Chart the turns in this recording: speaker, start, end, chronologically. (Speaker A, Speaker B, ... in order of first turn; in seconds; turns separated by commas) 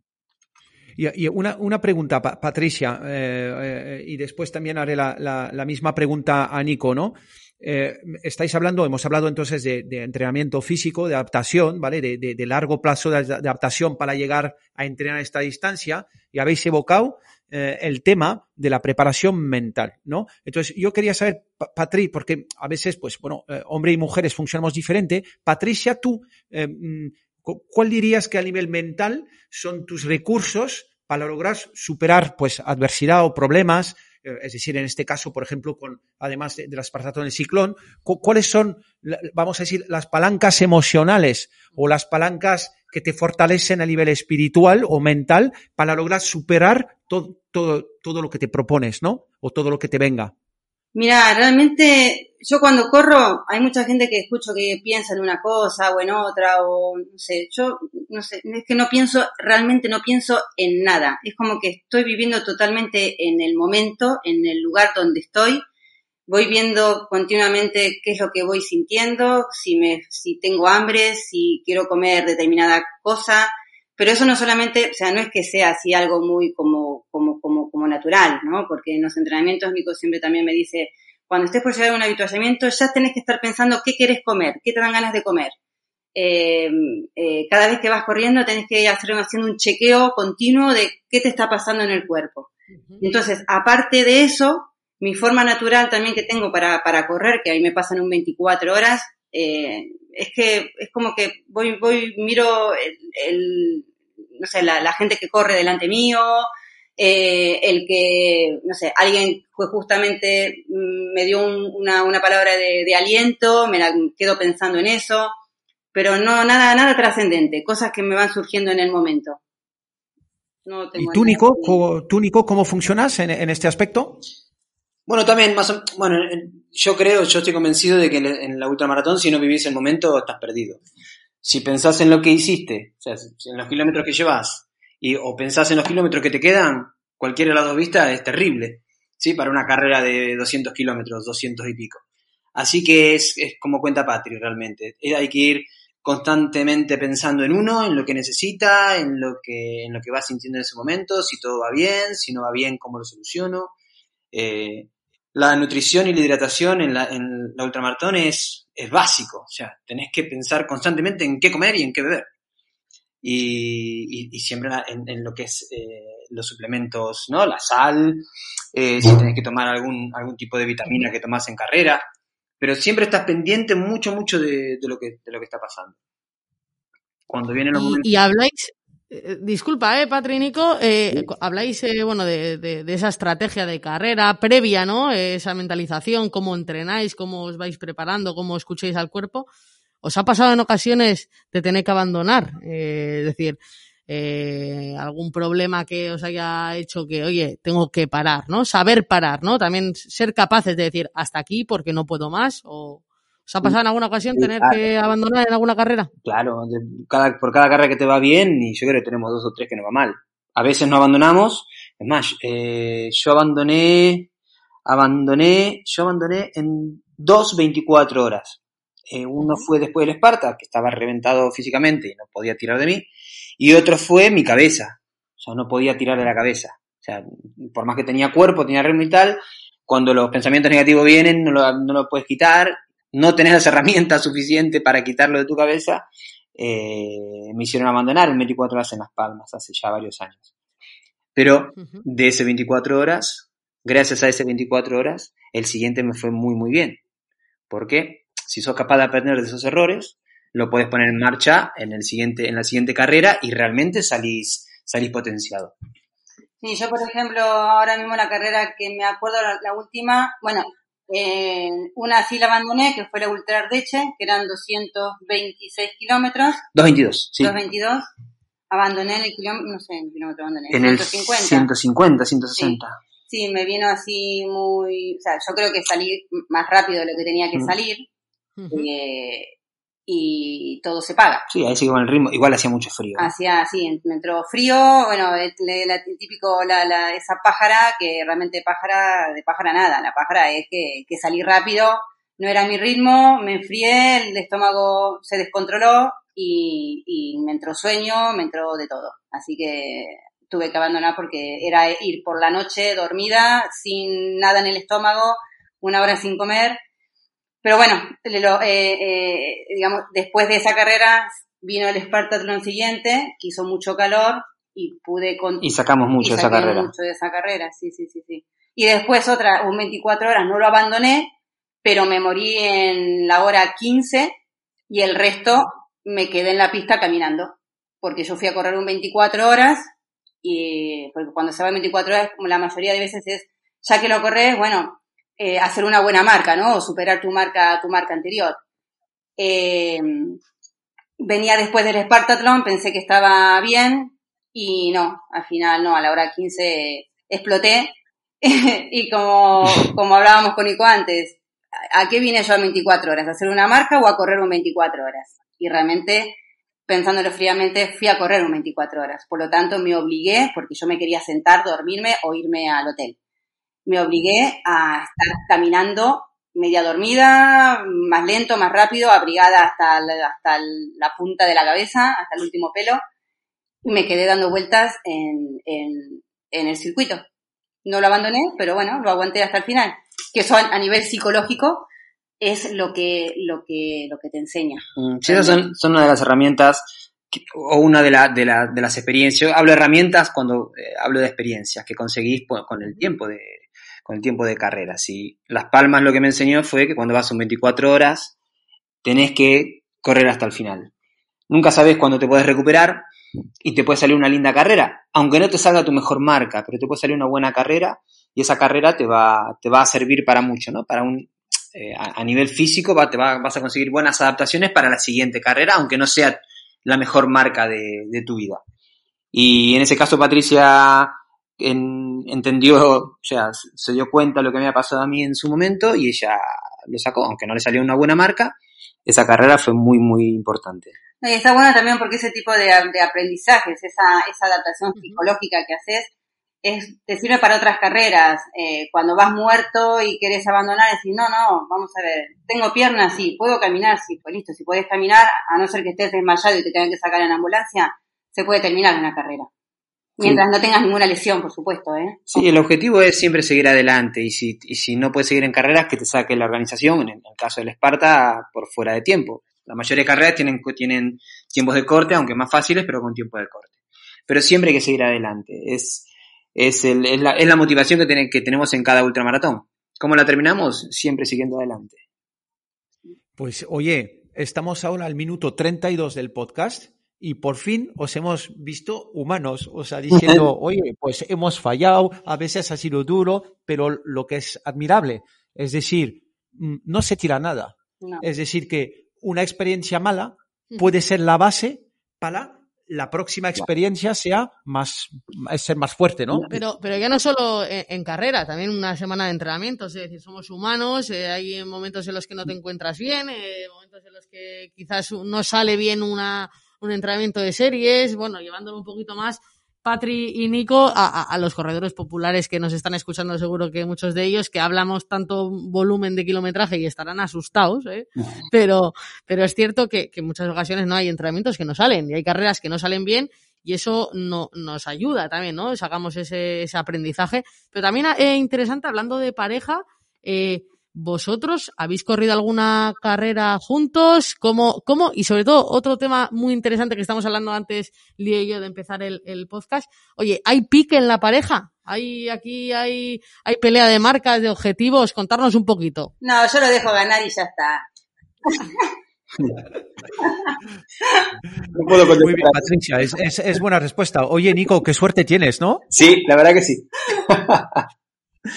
Speaker A: 1.0-50.3, Speaker B: 51.0-65.6, Speaker B: 66.3-85.5, Speaker B: 86.2-92.5, Speaker B: 93.0-115.3, Speaker B: 115.9-119.4, Speaker B: 120.7-121.8, Speaker A: 121.0-124.2, Speaker C: 125.1-130.8, Speaker C: 131.4-142.0, Speaker C: 142.6-153.8, Speaker C: 154.3-162.3, Speaker C: 163.2-172.0, Speaker C: 172.6-176.0, Speaker C: 177.3-178.1, Speaker D: 177.7-189.5, Speaker D: 190.0-206.1, Speaker C: 204.4-204.8, Speaker C: 206.2-214.3, Speaker C: 214.9-240.5, Speaker C: 241.4-247.0, Speaker D: 241.8-242.0, Speaker C: 247.7-255.8, Speaker B: 256.6-266.6, Speaker C: 266.7-267.6, Speaker B: 267.4-268.1, Speaker B: 268.7-271.7, Speaker C: 270.7-273.0, Speaker B: 273.3-278.1, Speaker D: 278.6-278.9, Speaker B: 278.7-279.5, Speaker B: 280.1-281.4, Speaker C: 281.5-283.3, Speaker B: 283.2-306.8, Speaker B: 307.6-315.7, Speaker C: 315.6-316.9, Speaker B: 316.2-321.3, Speaker B: 321.8-324.4, Speaker B: 324.9-329.9, Speaker B: 330.4-338.6, Speaker B: 339.4-340.4, Speaker B: 341.2-351.4, Speaker B: 351.9-363.2, Speaker B: 363.9-373.0, Speaker B: 373.8-377.2, Speaker B: 377.9-381.9, Speaker B: 382.4-385.6, Speaker C: 385.0-398.3, Speaker C: 399.0-400.9, Speaker C: 401.5-403.1, Speaker C: 403.6-418.6, Speaker C: 419.3-430.9, Speaker B: 431.2-436.1, Speaker B: 436.6-449.5, Speaker B: 450.2-452.4, Speaker C: 452.3-463.7, Speaker C: 464.3-472.0, Speaker A: 473.4-496.5, Speaker C: 480.1-480.5, Speaker D: 496.5-546.1, Speaker B: 546.2-547.8, Speaker C: 551.7-552.7, Speaker A: 552.2-555.8, Speaker C: 555.9-557.9